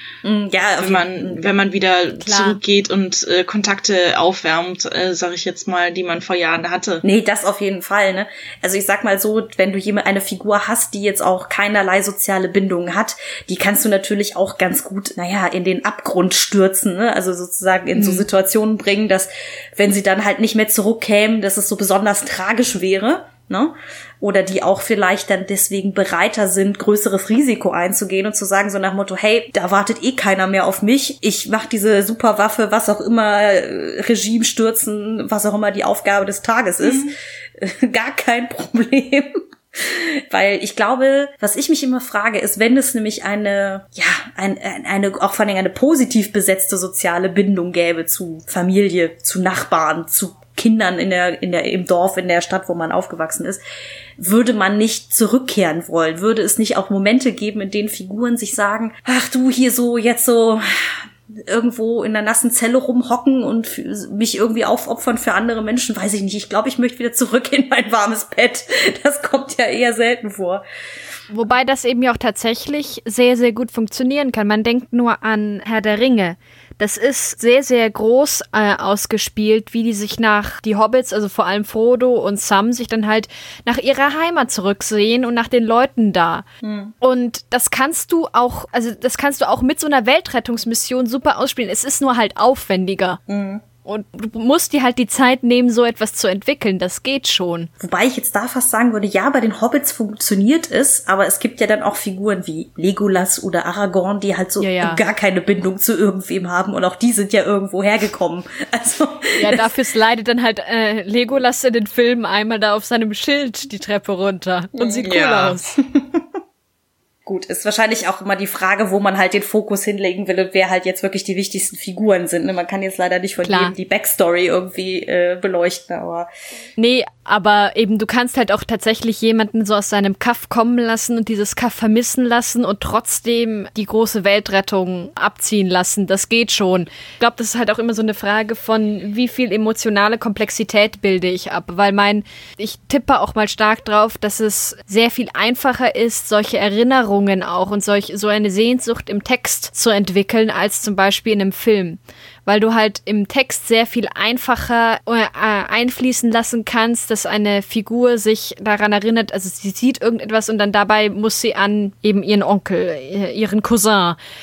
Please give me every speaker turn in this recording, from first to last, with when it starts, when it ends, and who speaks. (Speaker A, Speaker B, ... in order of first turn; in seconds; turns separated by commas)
Speaker A: 0.2-1.5, Speaker B: 0.8-7.0, Speaker C: 2.2-2.6, Speaker A: 7.0-53.6, Speaker C: 17.9-18.2, Speaker A: 54.2-70.6, Speaker C: 71.3-86.4, Speaker A: 86.6-86.9, Speaker C: 87.0-93.2, Speaker A: 93.3-93.6, Speaker C: 93.8-97.7, Speaker A: 97.8-109.8, Speaker C: 104.6-105.0, Speaker C: 109.4-115.7, Speaker A: 114.8-115.1, Speaker B: 115.0-115.6, Speaker A: 115.8-116.2, Speaker A: 117.2-126.3, Speaker C: 123.4-123.7, Speaker C: 126.8-164.2